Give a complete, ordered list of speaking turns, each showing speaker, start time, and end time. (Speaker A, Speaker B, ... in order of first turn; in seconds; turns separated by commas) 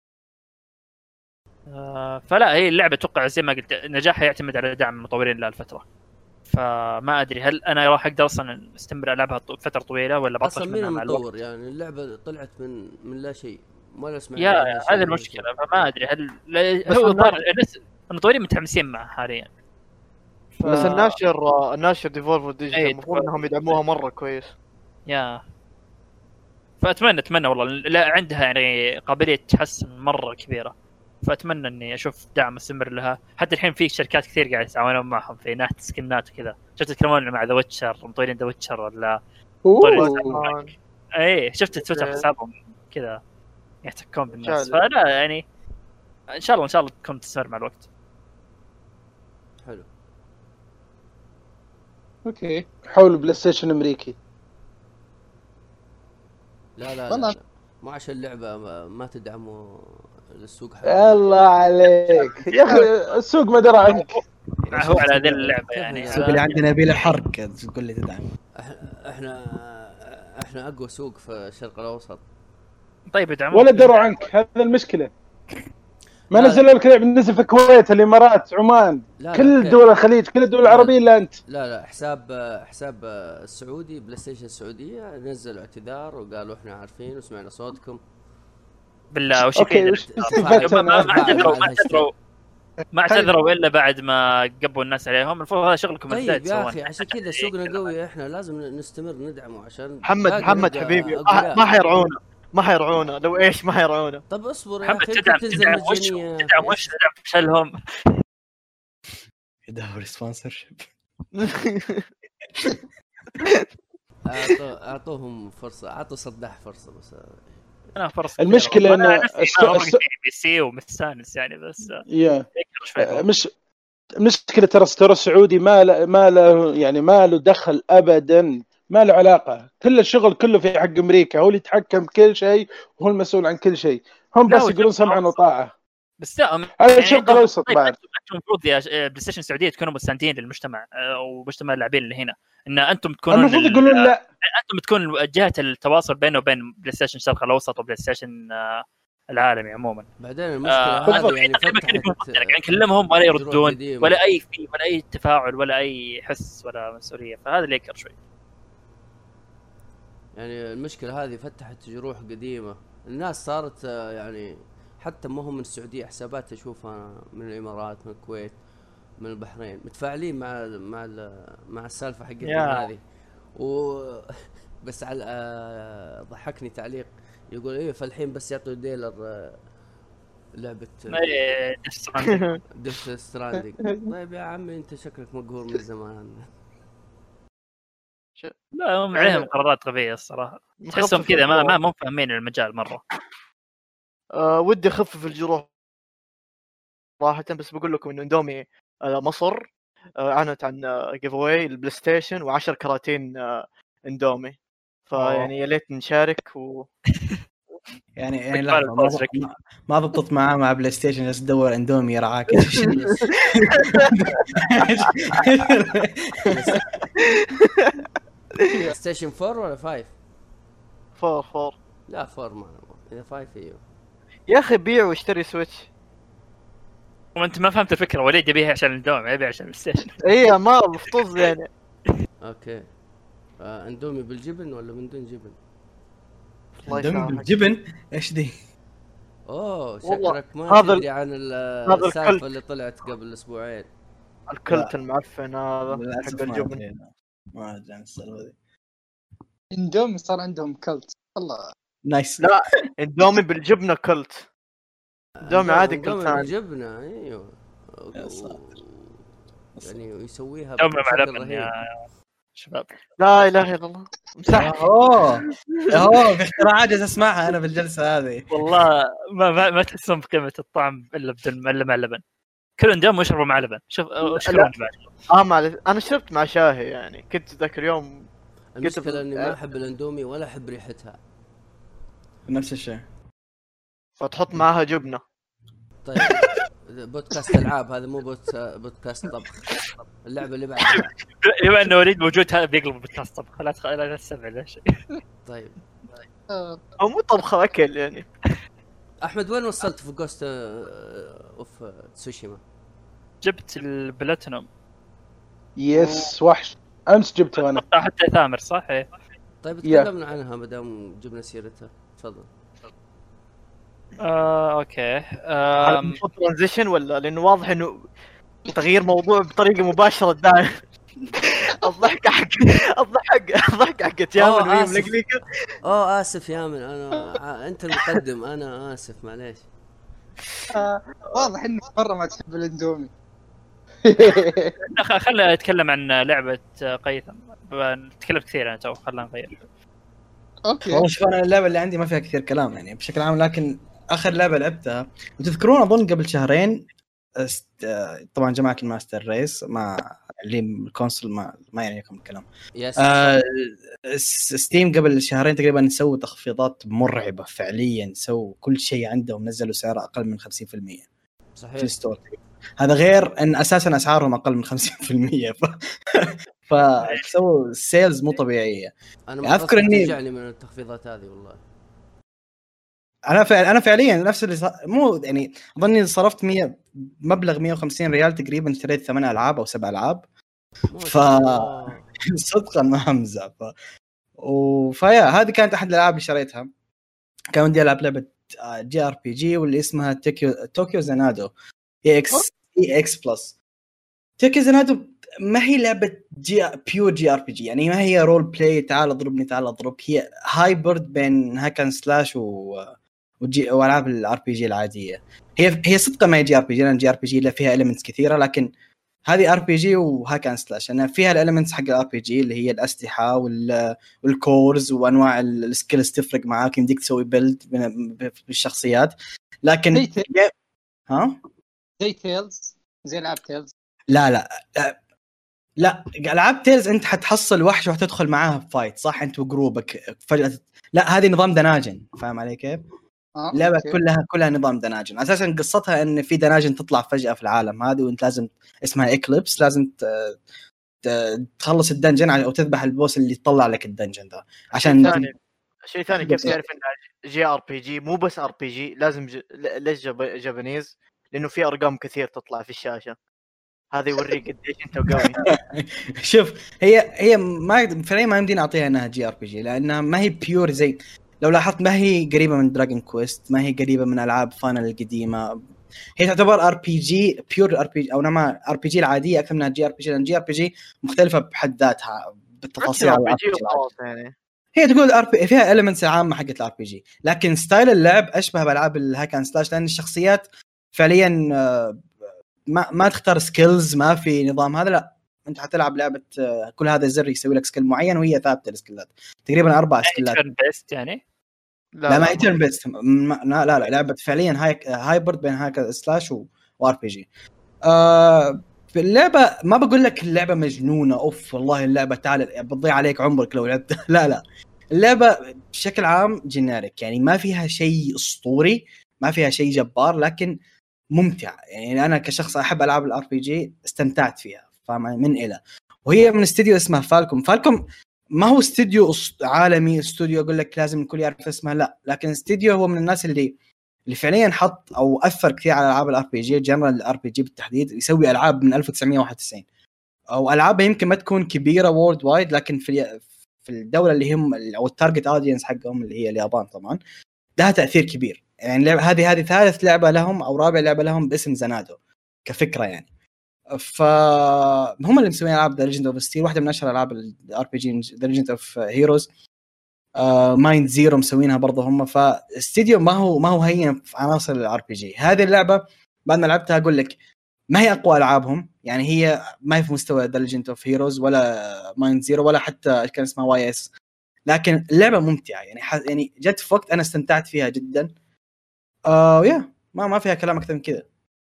Speaker A: 1.7-5.8, Speaker A: 6.5-11.2, Speaker B: 10.4-15.5, Speaker A: 14.4-19.5, Speaker C: 16.9-17.4, Speaker C: 20.6-24.5, Speaker A: 20.6-21.2, Speaker A: 22.7-23.8, Speaker A: 25.1-25.4, Speaker A: 26.8-30.7, Speaker A: 31.2-39.2, Speaker D: 39.6-40.4, Speaker A: 39.8-40.6, Speaker C: 40.0-40.7, Speaker A: 41.2-43.2, Speaker C: 41.8-42.2, Speaker A: 43.8-45.4, Speaker C: 44.4-44.8, Speaker A: 46.3-47.8, Speaker E: 52.2-52.6, Speaker D: 52.9-54.1, Speaker B: 56.8-61.2, Speaker E: 57.1-57.4, Speaker D: 60.8-64.2, Speaker E: 62.2-62.8, Speaker F: 64.7-65.6, Speaker A: 64.7-66.6, Speaker B: 65.7-66.5, Speaker F: 66.1-68.3, Speaker B: 68.6-72.2, Speaker A: 73.1-74.3, Speaker D: 73.5-75.1, Speaker D: 76.3-81.3, Speaker B: 76.3-76.6, Speaker B: 79.2-79.8, Speaker B: 80.6-80.9, Speaker B: 81.5-88.0, Speaker A: 89.1-92.1, Speaker D: 89.5-91.6, Speaker B: 90.2-92.1, Speaker A: 92.9-97.9, Speaker B: 96.1-101.6, Speaker C: 100.0-104.2, Speaker B: 104.3-106.9, Speaker A: 104.8-107.7, Speaker F: 109.7-110.9, Speaker C: 111.3-112.0, Speaker B: 114.2-117.4, Speaker A: 117.9-122.0, Speaker D: 118.4-120.0, Speaker D: 122.1-122.5, Speaker A: 122.5-123.2, Speaker D: 123.0-123.5, Speaker D: 124.2-135.7, Speaker A: 134.5-135.4, Speaker A: 136.2-150.1, Speaker D: 136.8-137.9, Speaker D: 143.3-144.2, Speaker B: 150.2-152.6, Speaker A: 150.6-158.1, Speaker B: 153.2-154.2, Speaker B: 160.3-168.6, Speaker B: 169.2-173.0, Speaker A: 172.4-172.9, Speaker B: 173.6-179.6, Speaker B: 180.6-181.3, Speaker A: 181.1-182.5, Speaker C: 182.2-182.6, Speaker B: 182.8-186.4, Speaker A: 188.7-193.0, Speaker C: 189.1-189.5, Speaker C: 190.8-191.8, Speaker C: 194.4-195.7, Speaker C: 197.2-206.9, Speaker A: 205.1-205.5, Speaker F: 208.2-216.8, Speaker A: 208.5-209.3, Speaker C: 212.6-214.1, Speaker B: 212.8-213.3, Speaker B: 216.5-216.8, Speaker C: 217.6-217.9, Speaker C: 218.6-218.9, Speaker B: 218.9-220.1, Speaker C: 221.1-221.8, Speaker B: 222.1-223.8, Speaker C: 224.5-225.9, Speaker A: 227.3-230.2, Speaker C: 230.2-231.7, Speaker B: 232.4-232.9, Speaker B: 233.6-235.6, Speaker C: 236.8-237.5, Speaker F: 236.8-238.5, Speaker B: 239.5-243.9, Speaker C: 240.0-241.0, Speaker C: 241.9-242.4, Speaker C: 244.5-246.8, Speaker F: 245.9-248.6, Speaker E: 249.7-251.7, Speaker F: 252.1-252.5, Speaker C: 252.4-254.5, Speaker B: 255.4-259.2, Speaker C: 255.4-256.5, Speaker F: 258.1-258.6, Speaker B: 259.8-261.7, Speaker A: 260.8-261.9, Speaker A: 262.5-263.0, Speaker C: 263.2-264.8, Speaker F: 264.5-268.5, Speaker C: 265.5-266.1, Speaker A: 268.5-272.2, Speaker A: 272.8-275.1, Speaker C: 274.2-274.7, Speaker C: 275.3-278.3, Speaker B: 278.8-281.1, Speaker C: 278.8-279.5, Speaker F: 282.4-283.0, Speaker C: 284.2-285.2, Speaker B: 286.0-289.6, Speaker B: 290.2-291.1, Speaker A: 290.9-294.8, Speaker B: 295.4-295.8, Speaker E: 296.5-296.8, Speaker C: 297.0-298.2, Speaker B: 299.2-302.6, Speaker A: 303.4-304.7, Speaker D: 305.8-307.8, Speaker A: 307.5-309.1, Speaker B: 309.6-312.5, Speaker D: 309.8-310.1, Speaker A: 314.2-316.2, Speaker C: 315.8-318.1, Speaker C: 318.6-325.4, Speaker B: 324.4-325.2, Speaker B: 325.8-329.7, Speaker E: 330.7-333.1, Speaker D: 334.0-334.7, Speaker A: 334.9-339.6, Speaker E: 340.7-341.0, Speaker F: 340.8-361.0, Speaker B: 352.8-353.4, Speaker B: 361.6-361.9, Speaker F: 361.8-370.1, Speaker B: 369.3-371.6, Speaker F: 373.3-380.2, Speaker B: 380.9-382.2, Speaker F: 381.0-383.7, Speaker F: 384.4-386.7, Speaker F: 387.5-391.5, Speaker F: 392.0-393.5, Speaker F: 394.4-408.7, Speaker F: 409.3-420.5, Speaker E: 419.9-420.2, Speaker F: 421.1-421.4, Speaker E: 422.0-423.7, Speaker F: 424.1-425.0, Speaker F: 425.8-432.8, Speaker E: 433.4-434.0, Speaker F: 433.5-440.3, Speaker F: 441.0-445.2, Speaker C: 444.8-445.4, Speaker C: 445.9-453.1, Speaker F: 446.3-446.6, Speaker C: 453.9-455.4, Speaker F: 455.1-465.6, Speaker F: 466.2-473.9, Speaker C: 472.8-474.3, Speaker F: 474.8-482.1, Speaker F: 482.7-490.4, Speaker A: 490.0-491.2, Speaker C: 492.0-492.5, Speaker F: 492.1-497.3, Speaker F: 497.9-504.4, Speaker F: 504.9-510.6, Speaker F: 511.1-517.8, Speaker F: 518.3-523.5, Speaker F: 524.1-529.6, Speaker F: 530.3-537.0, Speaker F: 537.6-543.1, Speaker F: 543.7-549.3, Speaker F: 550.2-557.1, Speaker F: 557.7-563.9, Speaker F: 564.5-568.1, Speaker F: 569.1-571.0